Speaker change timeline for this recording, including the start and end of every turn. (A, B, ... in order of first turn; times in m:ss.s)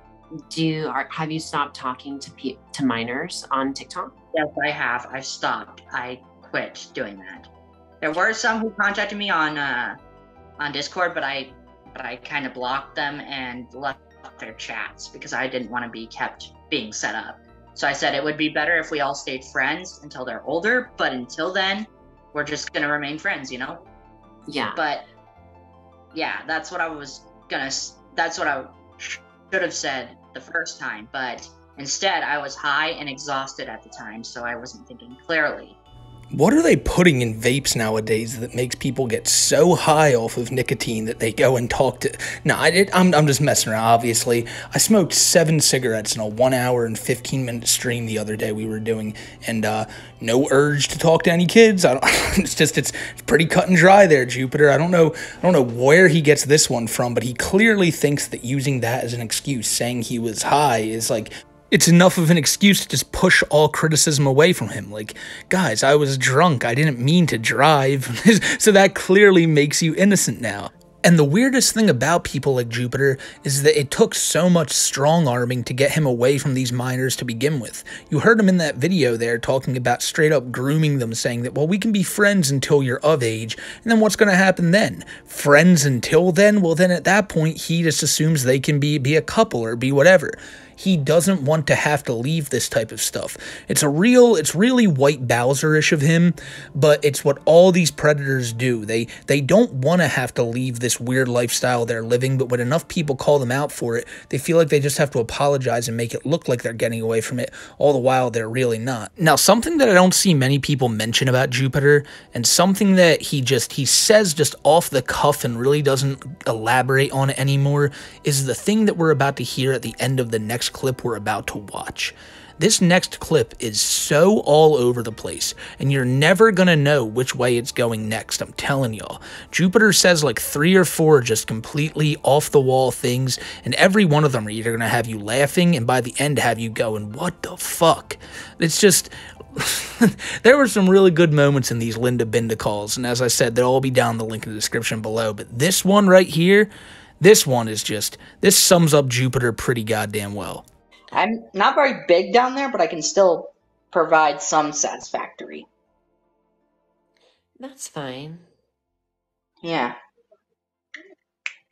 0:00.5-0:04.1 A
0:04.3-0:07.5 B
0:08.0-0:10.0 B
0:10.6-0:23.8 B
0:24.5-0:24.8 A
0:24.7-0:25.1 B
0:26.1-0:35.8 B
0:36.3-2:30.6 C
2:31.1-2:35.7 B
2:37.6-2:38.4 A
2:39.6-2:40.0 B